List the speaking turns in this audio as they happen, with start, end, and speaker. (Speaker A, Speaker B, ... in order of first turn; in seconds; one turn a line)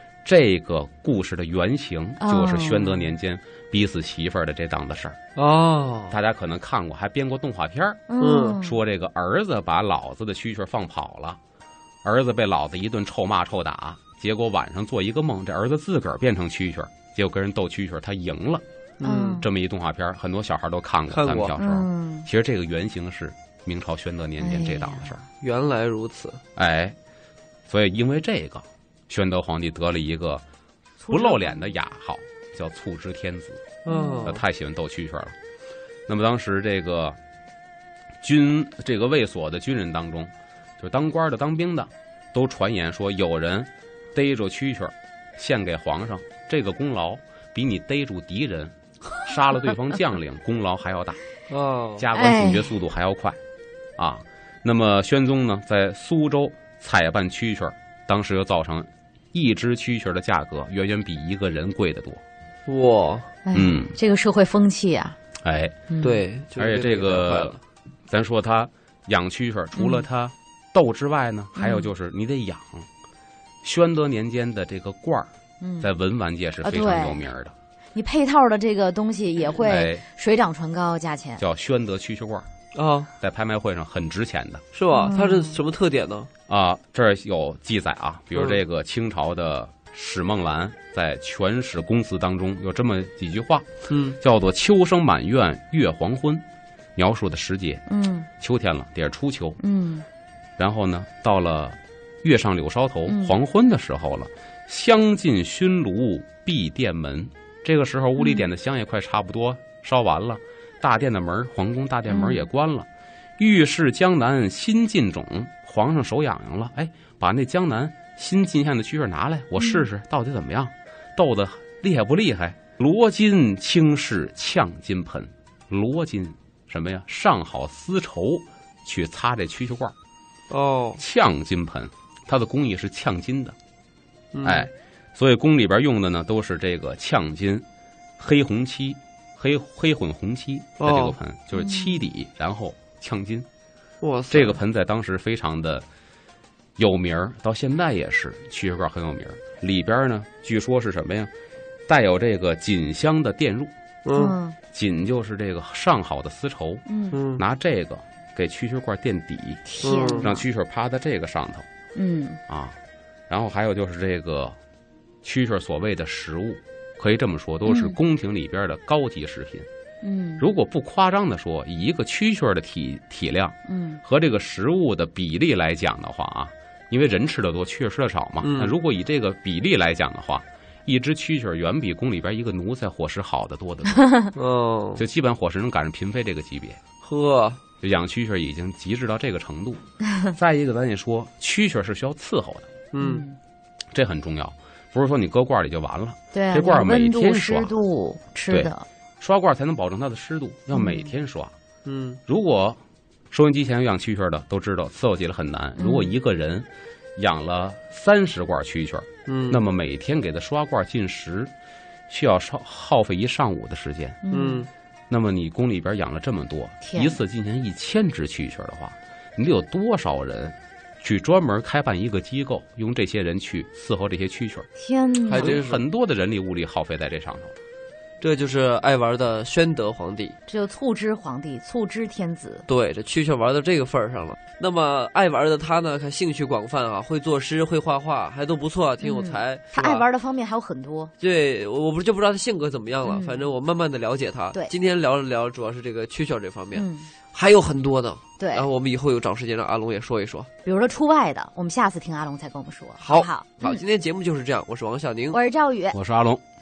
Speaker A: 0.2-5.2
Speaker B: 2.2-3.1
Speaker C: 5.3-6.2
Speaker A: 6.1-11.4
Speaker B: 8.1-8.8
Speaker C: 8.2-8.6
Speaker A: 12.0-18.6
Speaker C: 19.0-19.4
Speaker B: 19.0-19.4
Speaker A: 19.4-25.2
Speaker C: 21.1-21.6
Speaker B: 21.6-22.3
Speaker B: 24.4-25.1
Speaker C: 25.4-26.4
Speaker A: 26.6-27.0
Speaker A: 27.7-30.4
Speaker B: 31.0-31.6
Speaker A: 31.1-35.4
Speaker C: 33.8-34.4
Speaker B: 33.9-34.3
Speaker A: 36.1-37.2
Speaker A: 38.2-51.2
Speaker C: 51.5-52.1
Speaker A: 52.0-53.4
Speaker B: 52.1-52.7
Speaker A: 54.0-62.2
Speaker C: 62.7-63.3
Speaker B: 63.4-65.2
Speaker A: 63.5-63.9
Speaker A: 65.4-65.8
Speaker B: 65.9-66.2
Speaker C: 66.0-67.6
Speaker A: 66.5-67.5
Speaker A: 68.1-72.9
Speaker B: 69.8-70.0
Speaker B: 71.5-71.9
Speaker A: 73.6-77.5
Speaker B: 75.6-75.9
Speaker B: 76.6-77.3
Speaker B: 77.9-81.4
Speaker A: 79.6-80.0
Speaker A: 81.4-82.5
Speaker C: 82.7-83.1
Speaker A: 83.2-84.6
Speaker C: 84.7-86.3
Speaker B: 84.9-85.6
Speaker A: 86.5-93.7
Speaker C: 93.9-94.2
Speaker A: 94.2-96.4
Speaker A: 97.0-97.8
Speaker B: 97.9-98.3
Speaker A: 98.4-99.6
Speaker B: 99.6-100.0
Speaker A: 100.6-129.9
Speaker B: 103.1-103.4
Speaker B: 108.2-108.5
Speaker B: 112.1-112.5
Speaker B: 119.6-119.8
Speaker C: 130.5-131.0
Speaker A: 131.0-133.6
Speaker C: 134.3-134.7
Speaker A: 134.4-137.6
Speaker A: 138.2-143.5
Speaker C: 140.8-141.2
Speaker B: 141.5-142.1
Speaker C: 144.0-144.6
Speaker A: 144.3-145.8
Speaker A: 146.8-151.3
Speaker A: 151.9-153.7
Speaker C: 154.0-154.4
Speaker B: 154.1-154.6
Speaker A: 154.7-156.8
Speaker B: 156.9-157.2
Speaker C: 157.1-157.4
Speaker A: 157.3-161.7
Speaker B: 159.7-160.4
Speaker C: 159.8-160.3
Speaker B: 161.9-162.4
Speaker A: 162.5-162.8
Speaker A: 163.3-164.6
Speaker A: 165.2-169.7
Speaker B: 167.6-168.0
Speaker B: 170.0-170.4
Speaker A: 170.4-184.1
Speaker B: 173.7-174.0
Speaker C: 178.4-178.8
Speaker C: 184.3-185.0
Speaker A: 185.0-186.8
Speaker C: 187.0-187.6
Speaker A: 187.8-189.8
Speaker A: 190.3-192.7
Speaker C: 192.9-193.2
Speaker B: 193.0-193.4
Speaker A: 193.9-197.7
Speaker B: 196.3-198.8
Speaker A: 198.5-201.5
Speaker B: 200.7-201.1
Speaker C: 201.8-202.2
Speaker A: 202.3-202.8
Speaker A: 203.3-211.5
Speaker B: 205.8-206.1
Speaker C: 209.3-209.6
Speaker A: 212.1-214.2
Speaker B: 214.2-214.6
Speaker C: 214.3-214.7
Speaker A: 215.1-224.7
Speaker B: 216.8-217.2
Speaker B: 224.8-225.6
Speaker C: 225.3-225.8
Speaker A: 225.3-227.5
Speaker C: 228.2-230.3
Speaker B: 230.5-232.6
Speaker C: 232.7-240.1
Speaker B: 239.0-241.1
Speaker C: 241.2-250.5
Speaker B: 243.0-243.4
Speaker B: 246.7-247.1
Speaker B: 248.4-248.7
Speaker B: 250.6-253.8
Speaker C: 253.0-255.4
Speaker B: 255.3-256.0
Speaker A: 255.9-256.4